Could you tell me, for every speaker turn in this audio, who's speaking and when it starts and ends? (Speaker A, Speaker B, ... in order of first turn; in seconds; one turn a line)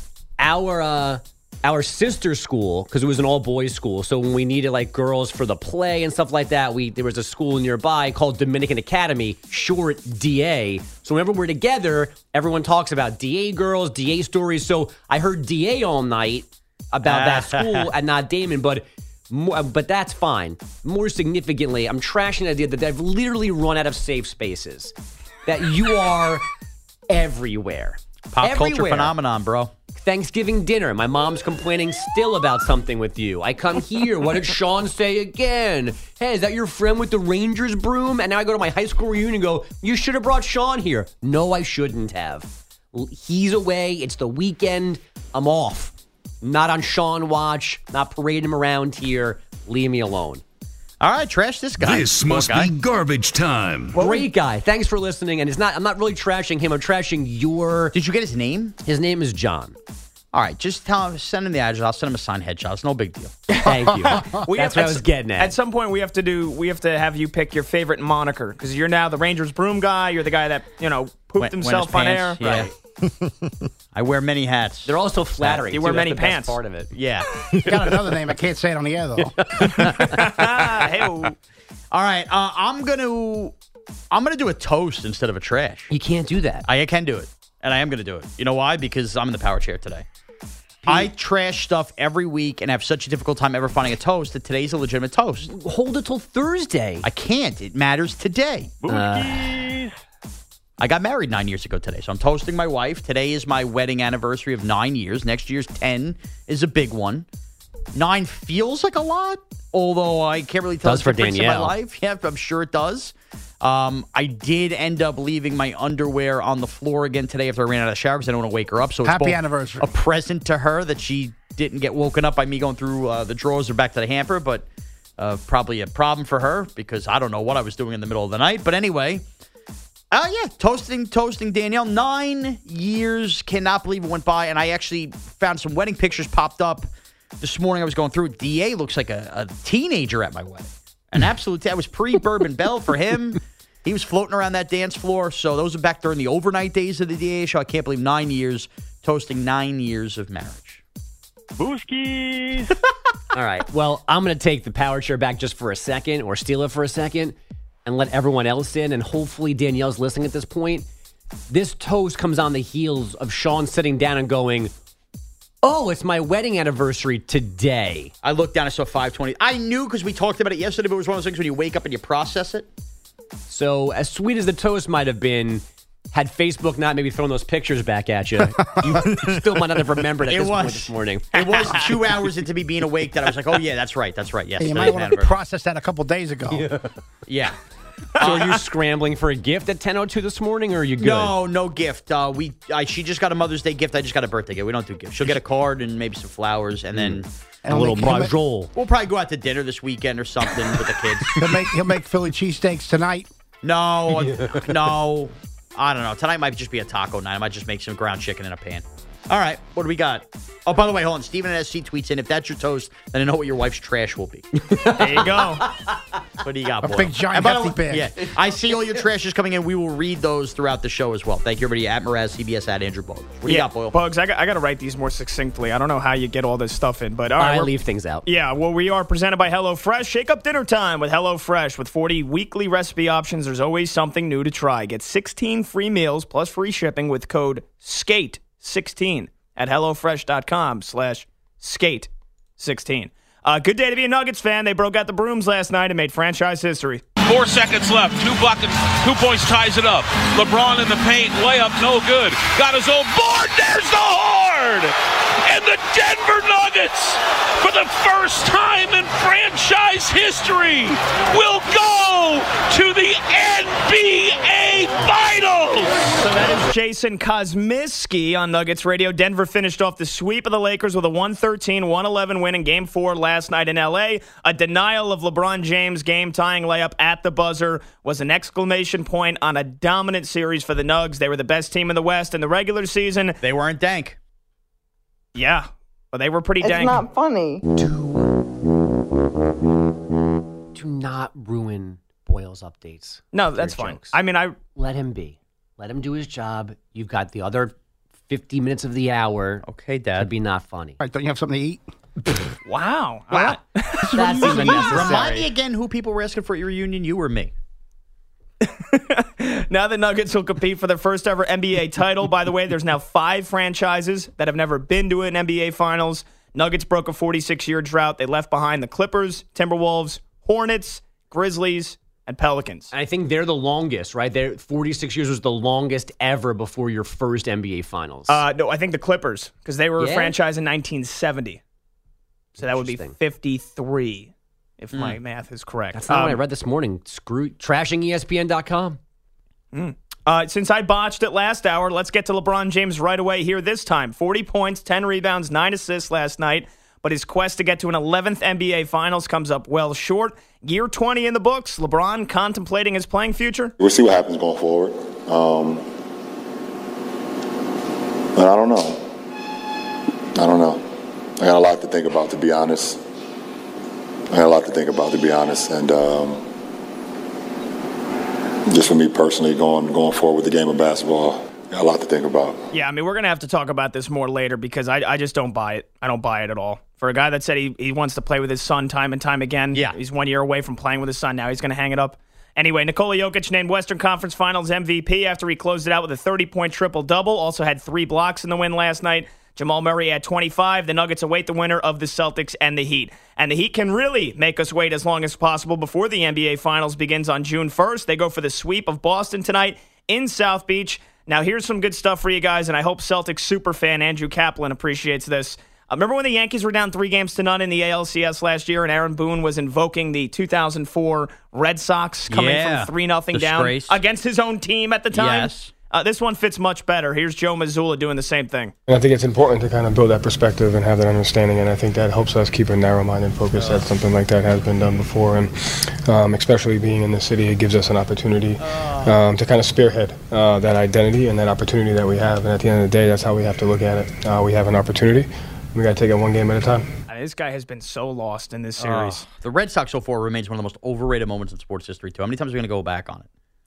Speaker A: 0.4-24.9
Speaker B: 17.1-17.9
Speaker A: 25.5-26.4
Speaker A: 27.1-29.1
Speaker B: 28.3-29.7
Speaker A: 29.9-50.4
Speaker B: 51.0-52.7
Speaker C: 51.8-54.0
Speaker A: 54.0-58.0
Speaker B: 58.0-58.8
Speaker A: 58.8-59.8
Speaker B: 60.3-63.4
Speaker D: 63.5-72.4
Speaker A: 63.6-65.5
Speaker B: 71.4-72.7
Speaker A: 72.4-72.7
Speaker B: 73.9-74.9
Speaker A: 74.9-76.9
Speaker D: 75.7-76.6
Speaker B: 76.9-77.8
Speaker E: 77.6-79.9
Speaker A: 79.5-80.2
Speaker D: 79.7-81.4
Speaker B: 81.9-83.5
Speaker B: 84.1-85.9
Speaker A: 85.9-86.7
Speaker B: 86.7-90.0
Speaker B: 90.9-95.5
Speaker A: 95.5-97.1
Speaker B: 97.0-98.9
Speaker A: 98.9-99.8
Speaker B: 100.8-107.3
Speaker B: 107.9-124.7
Speaker A: 110.8-111.7
Speaker E: 119.0-119.9
Speaker B: 125.2-129.2
Speaker B: 130.1-136.9
Speaker B: 137.4-150.8
Speaker A: 153.3-160.9
Speaker A: 161.5-164.7
Speaker A: 165.6-168.1
Speaker B: 168.2-172.7
Speaker A: 173.5-181.9
Speaker B: 180.3-185.3
Speaker E: 184.6-186.7
Speaker A: 186.5-186.9
Speaker B: 187.3-187.6
Speaker A: 188.2-191.3
Speaker D: 188.2-188.6
Speaker B: 191.0-197.3
Speaker A: 196.9-198.7
Speaker E: 197.7-198.3
Speaker B: 198.7-201.5
Speaker E: 201.4-203.3
Speaker B: 203.6-214.5
Speaker A: 204.2-204.7
Speaker A: 214.6-215.4
Speaker D: 215.0-215.7
Speaker B: 215.2-215.4
Speaker B: 216.4-224.0
Speaker E: 216.8-218.1
Speaker D: 223.4-227.7
Speaker A: 227.4-228.2
Speaker D: 228.3-247.0
Speaker F: 247.2-254.9
Speaker F: 255.4-266.1
Speaker D: 266.2-283.4
Speaker B: 283.4-284.2
Speaker D: 285.4-287.2
Speaker A: 287.8-288.3
Speaker A: 290.8-294.2
Speaker D: 293.3-294.6
Speaker A: 294.8-297.8
Speaker A: 298.3-299.6
Speaker B: 299.7-300.3
Speaker A: 300.2-301.0
Speaker E: 301.0-301.8
Speaker D: 302.6-305.4
Speaker E: 304.0-305.4
Speaker B: 304.1-307.5
Speaker A: 304.2-305.2
Speaker D: 308.6-322.9
Speaker A: 322.9-328.4
Speaker D: 328.3-331.6
Speaker A: 330.0-330.4
Speaker D: 332.6-336.4
Speaker A: 332.6-333.2
Speaker B: 334.9-335.2
Speaker A: 335.9-339.0
Speaker D: 339.7-353.7
Speaker G: 353.8-355.9
Speaker G: 358.4-359.1
Speaker G: 360.4-360.9
Speaker G: 361.4-363.0
Speaker G: 364.3-366.4
Speaker G: 368.7-372.6
Speaker D: 372.7-418.7
Speaker B: 412.3-414.0
Speaker B: 415.1-415.7
Speaker H: 418.9-436.9
Speaker B: 423.6-423.9
Speaker B: 428.6-429.2
Speaker D: 437.1-439.3
Speaker B: 438.8-443.3